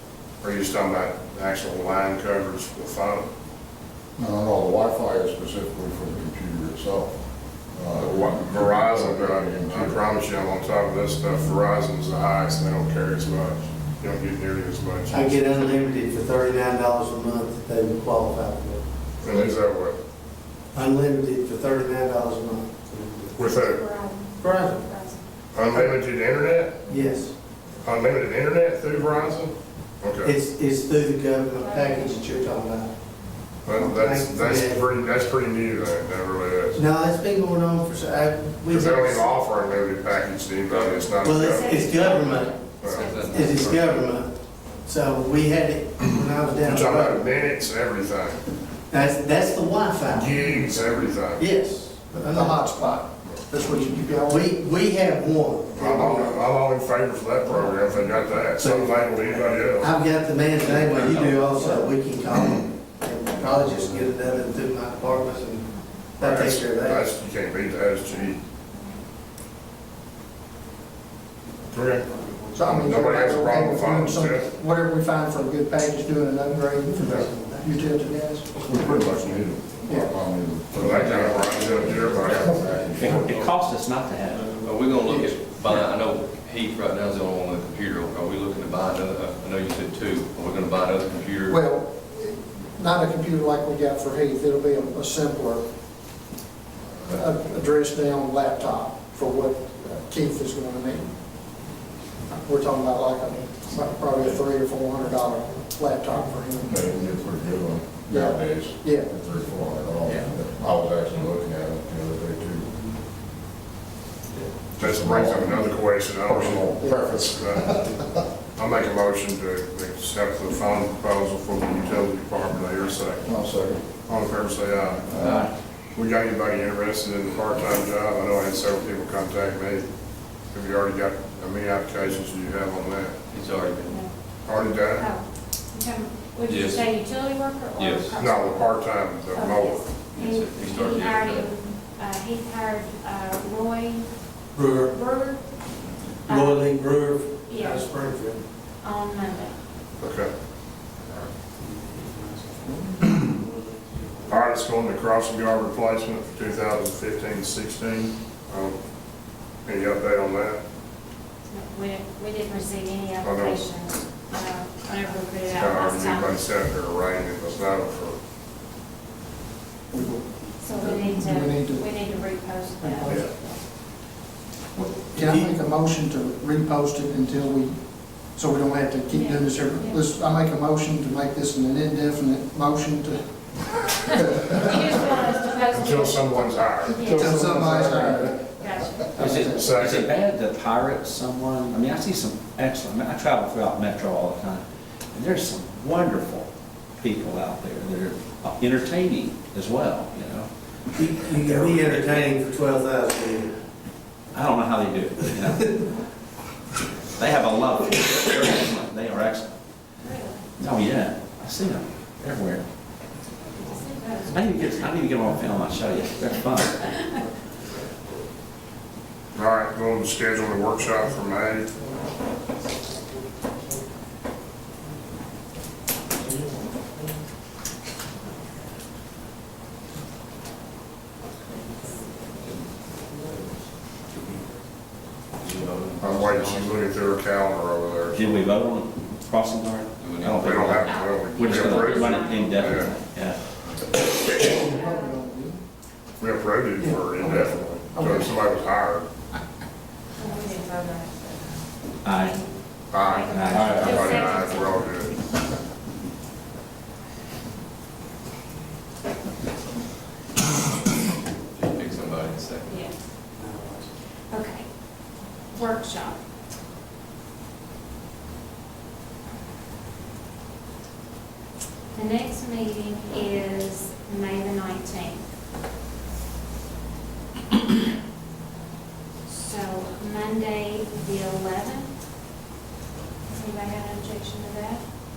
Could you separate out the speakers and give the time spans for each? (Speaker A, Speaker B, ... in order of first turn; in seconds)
Speaker A: 0.4-3.3, 7.9-15.4, 19.2-20.0, 23.4-23.8, 25.5-26.8, 27.8-30.4, 33.6-36.8, 38.7-44.0, 46.6-48.5, 50.1-51.5, 55.7-59.9, 66.2-68.4, 71.7-74.5, 78.7-79.2, 80.7-82.9, 114.8-117.8, 118.5-123.3, 124.0-125.2, 125.9-129.9, 130.4-133.2, 134.4-135.1, 138.2-139.9, 150.0-150.3, 154.2-158.8, 159.6-160.6, 163.2-163.7, 165.4-168.2, 185.7-187.0, 189.6-190.1, 219.3-221.7, 236.0-238.5, 240.4-243.0, 246.2-249.1, 252.9-255.2
Speaker B: 4.2-7.2, 7.7-10.0, 78.6-83.5, 106.7-112.7, 114.7-118.2, 123.2-123.8, 125.1-125.5, 187.1-188.3
Speaker C: 15.1-18.9, 20.7-23.4, 24.4-24.8, 26.9-27.3, 30.2-32.9, 33.6-34.9, 36.7-39.3, 41.2-47.3, 48.9-52.8, 54.2-56.4, 58.5-67.0, 76.9-78.1, 144.5-144.9, 146.3-148.4, 175.1-175.6, 200.9-203.5, 246.8-248.1
Speaker D: 23.4-25.3, 31.6-32.2, 41.5-43.7, 65.7-66.0, 68.1-69.0, 133.8-134.1, 134.9-144.2, 144.8-145.4, 146.3-146.8, 147.5-147.9, 148.8-149.6, 161.5-166.4, 170.6-173.6, 179.1-180.1, 184.6-187.5, 188.6-189.5, 210.0-210.5, 213.5-214.4, 240.8-243.0, 244.5-245.3, 250.2-254.9, 262.6-262.9, 264.3-266.2, 271.9-275.2, 279.2-281.9, 283.3-284.8
Speaker E: 40.7-41.0, 43.0-43.7, 60.7-61.3, 84.5-91.6, 133.3-134.0, 136.5-136.9, 137.8-138.1, 140.1-141.5, 235.4-236.9, 240.0-240.8, 261.5-262.8
Speaker F: 52.1-54.6, 55.8-56.3, 72.5-78.5, 79.8-80.2, 85.0-85.3, 91.4-95.7, 97.0-101.1, 102.4-106.8, 108.1-109.1, 116.8-117.1, 169.9-172.0, 172.8-173.3, 174.7-183.7, 184.3-185.1, 187.0-188.5, 189.1-189.7, 244.0-245.6
Speaker G: 83.0-84.5, 189.2-196.5, 197.0-200.5, 201.4-202.0, 204.3-205.8, 207.2-209.5, 210.6-212.6, 214.3-216.8, 238.1-243.4, 252.0-252.4, 253.2-254.1